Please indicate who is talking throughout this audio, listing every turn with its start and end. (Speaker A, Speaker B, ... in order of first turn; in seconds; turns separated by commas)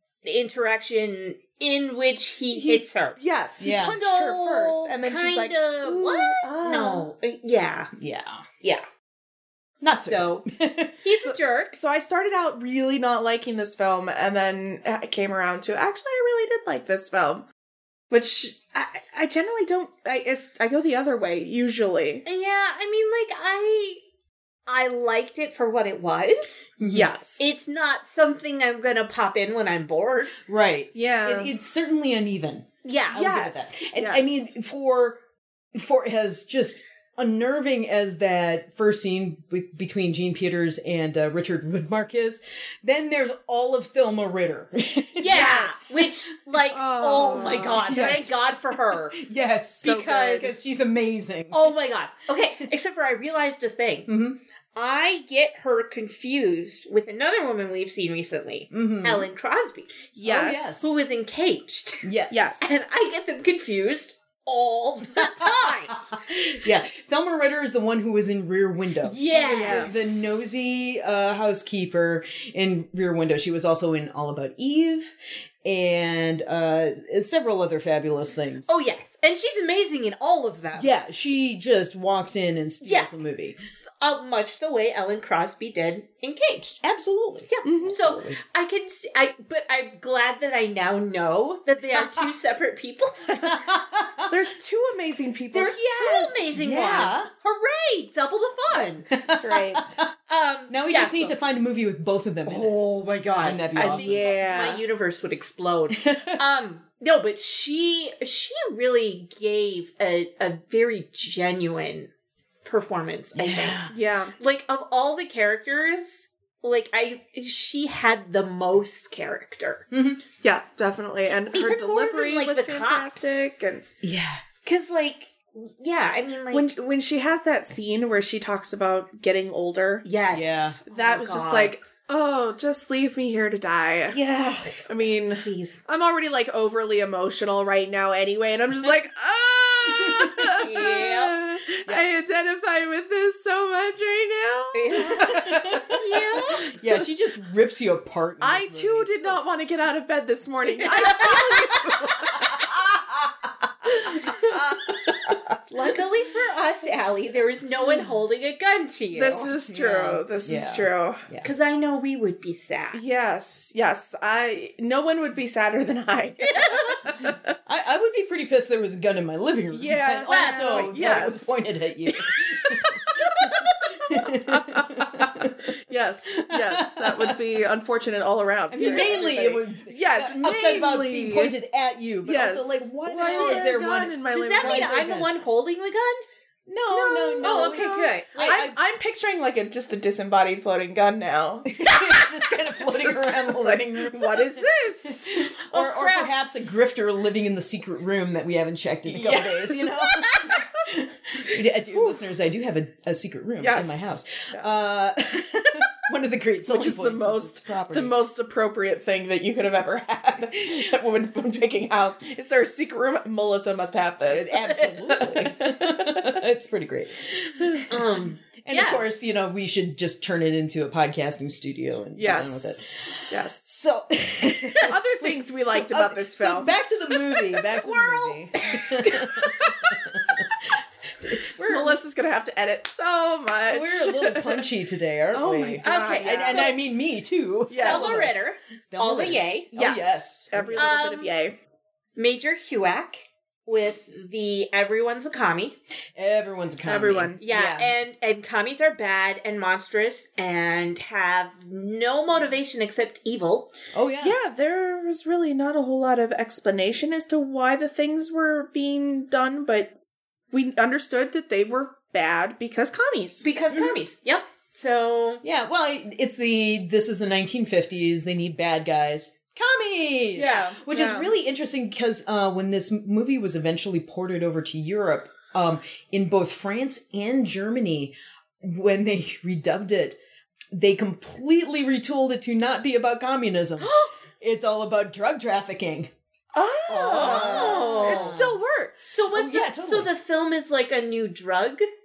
Speaker A: 0.2-3.2, Speaker B: 2.5-7.1, Speaker C: 3.6-4.0, Speaker A: 3.7-7.9, Speaker C: 8.0-8.4, Speaker C: 9.8-10.9, Speaker A: 9.9-10.4, Speaker A: 11.0-11.8, Speaker B: 11.3-17.4, Speaker B: 18.1-22.2, Speaker A: 22.2-24.0, Speaker A: 24.7-26.7, Speaker C: 26.8-27.1, Speaker B: 26.8-27.6, Speaker A: 27.4-30.4, Speaker C: 30.4-35.2, Speaker B: 30.9-31.5, Speaker A: 32.8-33.5, Speaker B: 33.1-34.5, Speaker C: 35.7-45.4, Speaker A: 45.1-49.2, Speaker B: 45.2-46.1, Speaker B: 46.7-48.3, Speaker C: 47.7-51.7, Speaker B: 49.8-50.5, Speaker A: 49.8-50.5, Speaker A: 51.5-54.1, Speaker C: 54.1-54.4, Speaker A: 54.7-59.9, Speaker C: 58.7-59.3, Speaker B: 60.1-60.8, Speaker C: 60.2-60.9, Speaker A: 60.5-66.1, Speaker C: 62.0-62.7, Speaker B: 62.3-62.7, Speaker C: 65.2-78.7, Speaker A: 69.0-70.5, Speaker B: 69.4-70.0, Speaker A: 78.7-80.9, Speaker C: 80.8-83.6, Speaker A: 82.8-83.1, Speaker A: 84.0-86.8, Speaker C: 86.8-88.4, Speaker A: 87.5-93.6, Speaker B: 87.6-88.0, Speaker C: 91.9-92.2, Speaker C: 93.3-94.3, Speaker B: 94.3-96.5, Speaker A: 95.5-99.1, Speaker C: 96.5-97.3, Speaker C: 99.1-100.1, Speaker B: 99.3-100.0, Speaker A: 100.3-101.3, Speaker C: 100.7-102.8, Speaker A: 102.5-112.1, Speaker C: 103.4-104.3, Speaker B: 103.8-104.8, Speaker C: 105.9-106.4, Speaker A: 112.6-119.8, Speaker C: 113.3-113.9, Speaker B: 113.9-114.3, Speaker C: 119.9-120.2, Speaker B: 120.4-123.8, Speaker A: 121.5-123.4, Speaker C: 124.0-124.4, Speaker A: 124.6-126.7, Speaker B: 126.5-130.1, Speaker A: 130.0-131.8, Speaker C: 130.3-130.8, Speaker B: 130.9-134.2, Speaker A: 134.1-135.8, Speaker B: 134.9-146.0, Speaker C: 139.9-140.7, Speaker A: 140.6-141.4, Speaker A: 144.7-146.7, Speaker C: 145.0-146.0, Speaker C: 146.6-149.4, Speaker B: 146.6-147.1, Speaker B: 148.4-152.7, Speaker A: 150.9-151.8, Speaker C: 152.2-155.5, Speaker B: 154.0-154.6, Speaker A: 155.7-159.5, Speaker B: 159.1-161.2, Speaker C: 159.7-161.5, Speaker A: 161.4-163.0, Speaker B: 162.9-167.5, Speaker A: 166.4-167.0, Speaker C: 167.2-175.7, Speaker B: 169.7-181.5, Speaker A: 170.3-170.7, Speaker C: 176.3-177.4, Speaker C: 178.7-185.3, Speaker A: 178.8-179.3, Speaker B: 182.2-185.2, Speaker A: 183.1-186.2, Speaker C: 186.7-188.8, Speaker B: 186.9-192.1, Speaker A: 187.3-188.6, Speaker C: 191.7-208.1, Speaker B: 192.8-195.5, Speaker A: 195.7-196.3, Speaker B: 199.1-200.0, Speaker B: 203.6-204.8, Speaker B: 206.7-216.2, Speaker C: 214.3-231.9, Speaker A: 214.5-214.9, Speaker A: 217.9-219.0, Speaker B: 222.2-223.7, Speaker B: 224.8-226.7, Speaker A: 227.5-229.0, Speaker B: 228.9-230.0, Speaker B: 231.6-234.7, Speaker C: 233.7-240.9, Speaker B: 235.3-236.8, Speaker A: 235.8-236.7, Speaker B: 237.7-238.4, Speaker A: 237.8-239.7, Speaker B: 239.7-241.5, Speaker A: 240.7-241.3, Speaker A: 242.2-245.8, Speaker C: 246.2-247.9, Speaker B: 246.8-247.4, Speaker A: 247.4-253.7, Speaker C: 253.9-254.4, Speaker B: 254.2-259.9, Speaker B: 260.5-263.5, Speaker A: 263.4-265.4, Speaker C: 263.7-264.0, Speaker C: 265.4-280.2, Speaker B: 270.3-271.3, Speaker C: 280.7-286.1, Speaker B: 283.8-284.1, Speaker B: 286.5-289.2, Speaker A: 286.9-288.4, Speaker C: 287.1-288.6, Speaker A: 289.1-291.9, Speaker C: 289.3-290.1